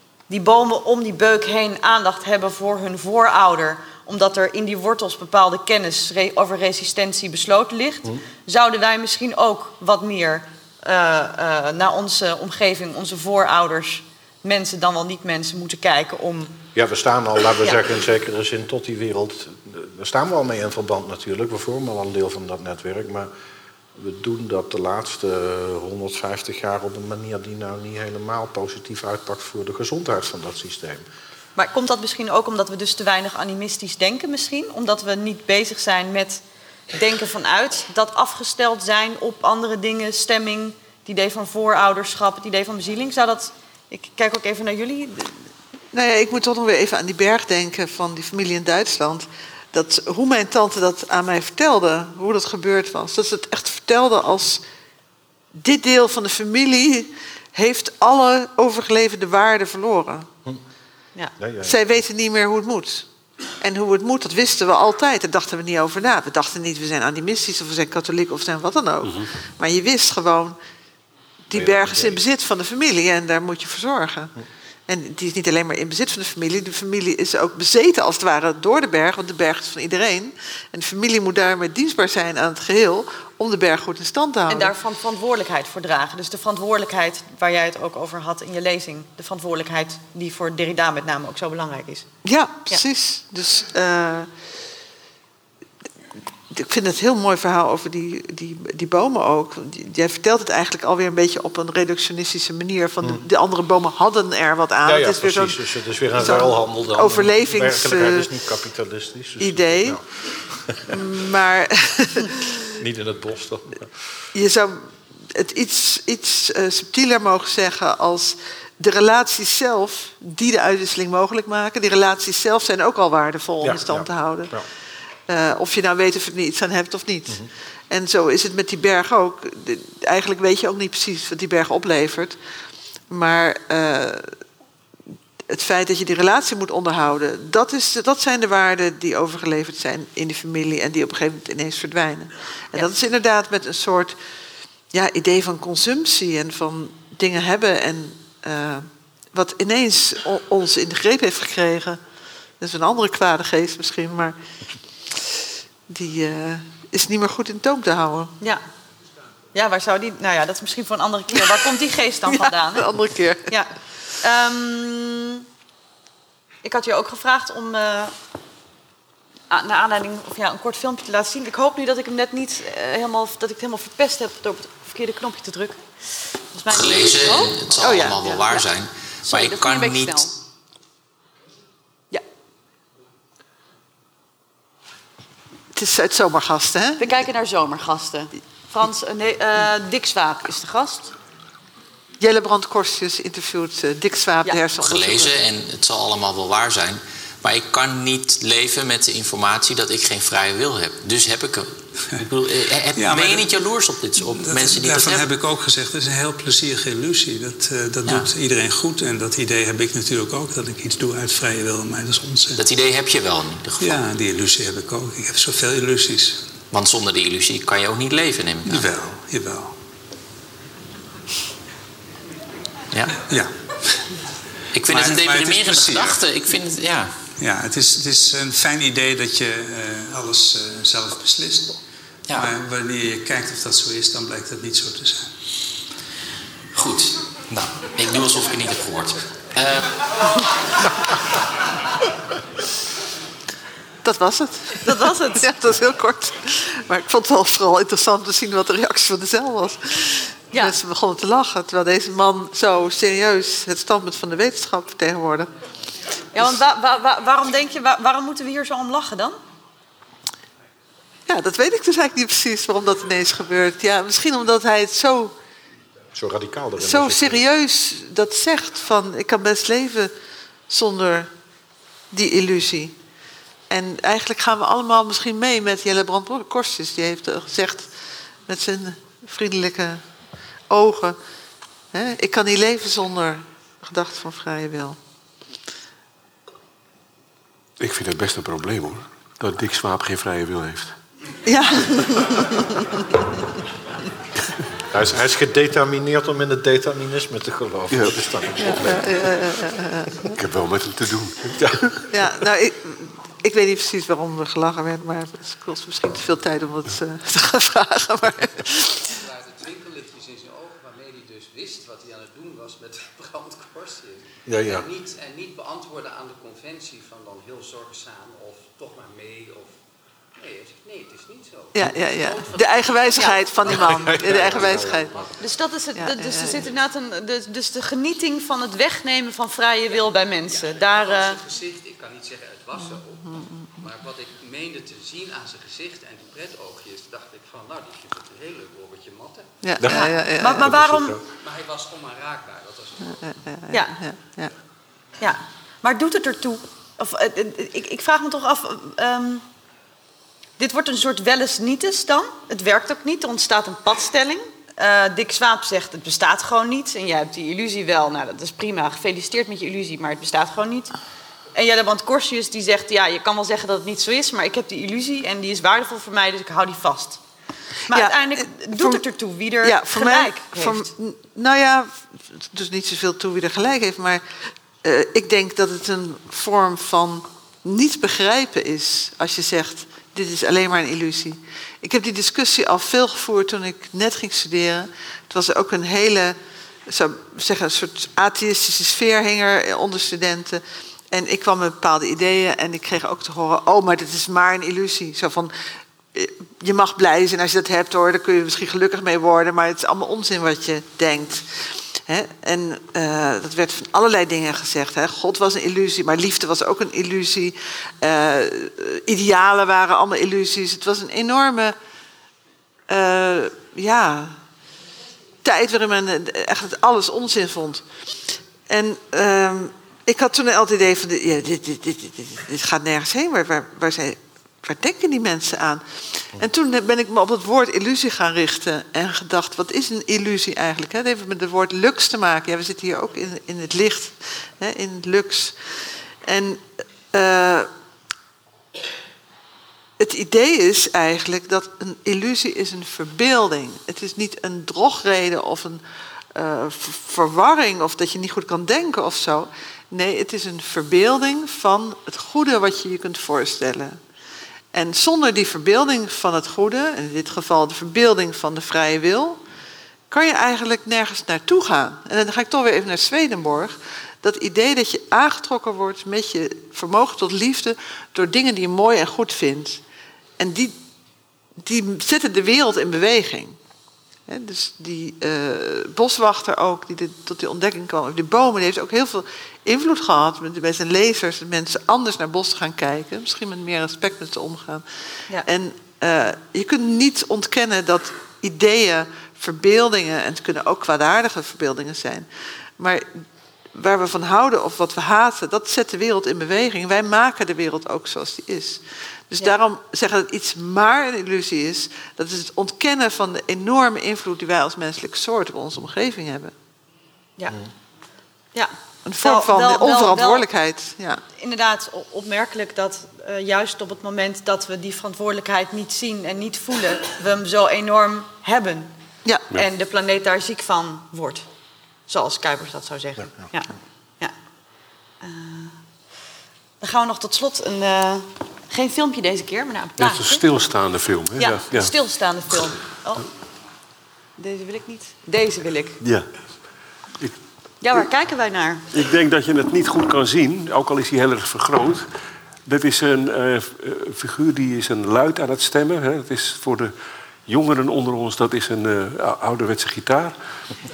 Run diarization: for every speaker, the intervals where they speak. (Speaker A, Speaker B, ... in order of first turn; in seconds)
Speaker A: 0.3-16.6, 31.6-45.3, 84.5-92.1, 159.5-162.9, 163.5-165.4, 166.6-168.1, 169.5-177.6, 178.2-178.6, 179.3-180.3, 187.0-191.1, 244.8-245.4, 256.3-259.4, 323.1-323.9, 325.4-331.5, 339.8-341.2, 343.7-344.0, 345.2-349.4, 350.6-360.9, 361.5-367.2, 367.9-370.9, 509.2-510.4, 511.4-518.9, 519.5-521.5, 522.1-524.3, 525.2-525.8, 526.8-530.4, 531.4-533.2, 534.4-536.0, 537.8-538.9
Speaker B: 16.7-23.3, 23.9-31.0, 61.4-61.9, 71.5-72.2, 104.8-111.1, 112.8-114.2, 123.6-124.7, 266.1-267.4, 294.9-299.4, 301.6-302.1, 314.4-314.9, 323.6-325.1, 339.8-341.2
Speaker C: 45.9-54.6, 55.6-60.3, 61.6-63.1, 63.6-70.6, 71.5-74.3, 74.9-84.7, 92.2-94.3, 96.5-105.6, 106.1-108.3, 109.4-110.0, 110.9-112.7, 114.3-124.6, 125.3-132.4, 133.1-134.3, 135.5-144.2, 144.9-152.0, 152.6-154.4, 155.1-158.3, 162.3-163.5, 177.8-178.3, 185.7-187.1, 192.2-195.3, 244.0-255.5, 261.3-265.3, 266.8-270.1, 270.7-271.3, 272.1-272.9, 273.7-277.9, 278.5-280.0, 280.7-281.2, 281.9-285.0, 291.4-293.0, 298.6-300.4, 302.1-309.1, 321.7-325.3, 325.9-326.6, 332.8-333.9, 339.6-340.7, 343.0-344.5, 367.9-369.0, 369.6-374.2, 374.8-386.4, 386.9-395.5, 396.1-411.7, 412.9-414.4, 415.4-437.7, 440.0-445.8, 446.3-454.0, 454.7-459.4, 460.1-469.8, 470.4-470.8, 471.6-473.6, 474.3-484.8, 485.4-492.3, 492.8-493.2, 493.7-506.5, 509.0-511.2
Speaker D: 69.0-69.3, 287.8-291.0, 297.9-299.0, 300.2-302.0, 530.0-531.9, 536.0-536.3, 538.9-542.1, 542.6-546.9, 547.5-550.3
Speaker E: 176.7-180.3, 194.8-205.3, 212.6-214.0, 216.7-218.9, 222.9-223.2, 224.7-227.1, 232.3-232.5, 236.7-237.2, 237.9-240.1
Speaker F: 202.9-203.5, 204.2-212.6, 213.8-216.4, 218.6-219.7, 223.2-224.1, 224.8-226.2, 227.4-231.8, 232.3-235.3
Speaker G: 309.8-310.4, 311.6-312.6, 315.7-317.8, 318.9-319.3, 331.6-332.2, 334.4-339.3, 341.7-342.8